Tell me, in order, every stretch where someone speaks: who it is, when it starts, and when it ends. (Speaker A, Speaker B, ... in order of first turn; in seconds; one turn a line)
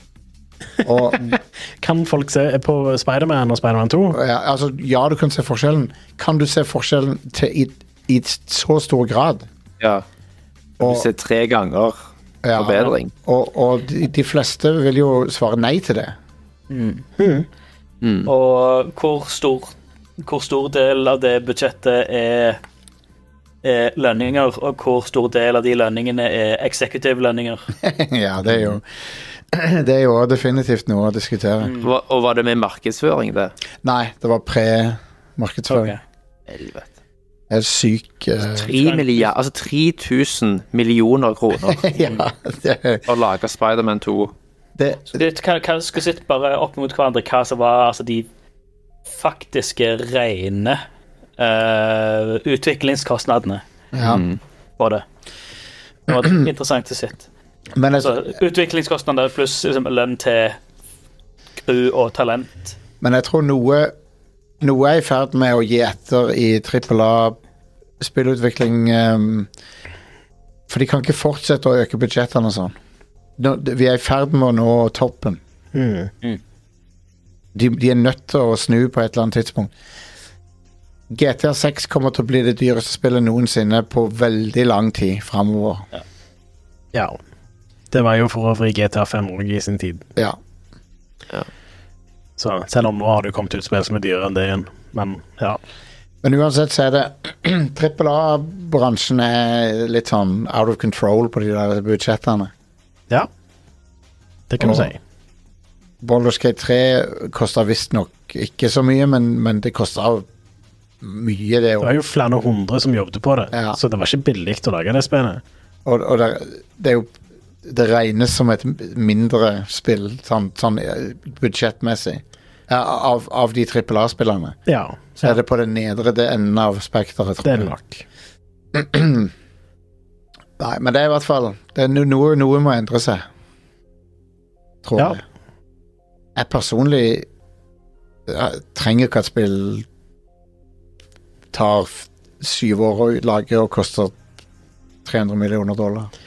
Speaker A: 0.8-1.4
Speaker B: 1.3-4.2
Speaker A: 4.1-9.5
Speaker A: 10.8-11.1
Speaker C: 10.8-12.0
Speaker A: 12.4-16.1
Speaker C: 12.6-13.1
Speaker D: 16.7-17.0
Speaker B: 17.2-17.5
Speaker C: 18.0-18.3
Speaker D: 18.3-22.6
Speaker D: 23.6-27.7
Speaker A: 27.8-28.9
Speaker A: 29.5-31.7
Speaker D: 31.6-31.9
Speaker C: 31.8-33.5
Speaker A: 33.8-36.0
Speaker D: 35.7-36.0
Speaker C: 36.5-36.8
Speaker A: 37.5-38.7
Speaker D: 38.5-39.3
Speaker C: 38.6-42.0
Speaker A: 41.6-43.0
Speaker C: 43.1-44.3
Speaker A: 44.8-45.2
Speaker D: 45.1-48.3
Speaker D: 49.1-50.8
Speaker D: 51.4-53.6
Speaker A: 53.9-54.2
Speaker C: 54.0-54.4
Speaker D: 54.8-55.0
Speaker D: 56.1-57.2
Speaker A: 57.8-58.3
Speaker D: 58.0-60.6
Speaker D: 61.6-62.6
Speaker A: 63.0-63.9
Speaker A: 64.6-67.4
Speaker A: 68.0-69.5
Speaker A: 70.7-72.8
Speaker A: 73.4-75.4
Speaker B: 75.7-76.1
Speaker A: 77.5-79.7
Speaker A: 81.1-85.9
Speaker B: 87.9-90.1
Speaker B: 92.4-95.6
Speaker A: 96.2-102.5
Speaker B: 104.5-105.0
Speaker A: 104.6-104.9
Speaker A: 106.0-110.3
Speaker A: 111.0-111.9
Speaker B: 111.8-115.4
Speaker A: 113.5-113.8
Speaker A: 115.8-117.1
Speaker A: 117.6-124.6
Speaker B: 124.7-125.4
Speaker A: 125.2-127.7
Speaker B: 127.4-128.1
Speaker A: 128.7-129.3
Speaker A: 130.6-133.3
Speaker A: 134.8-135.2
Speaker A: 136.4-137.3
Speaker A: 138.3-139.9
Speaker A: 141.5-144.2
Speaker A: 145.1-146.1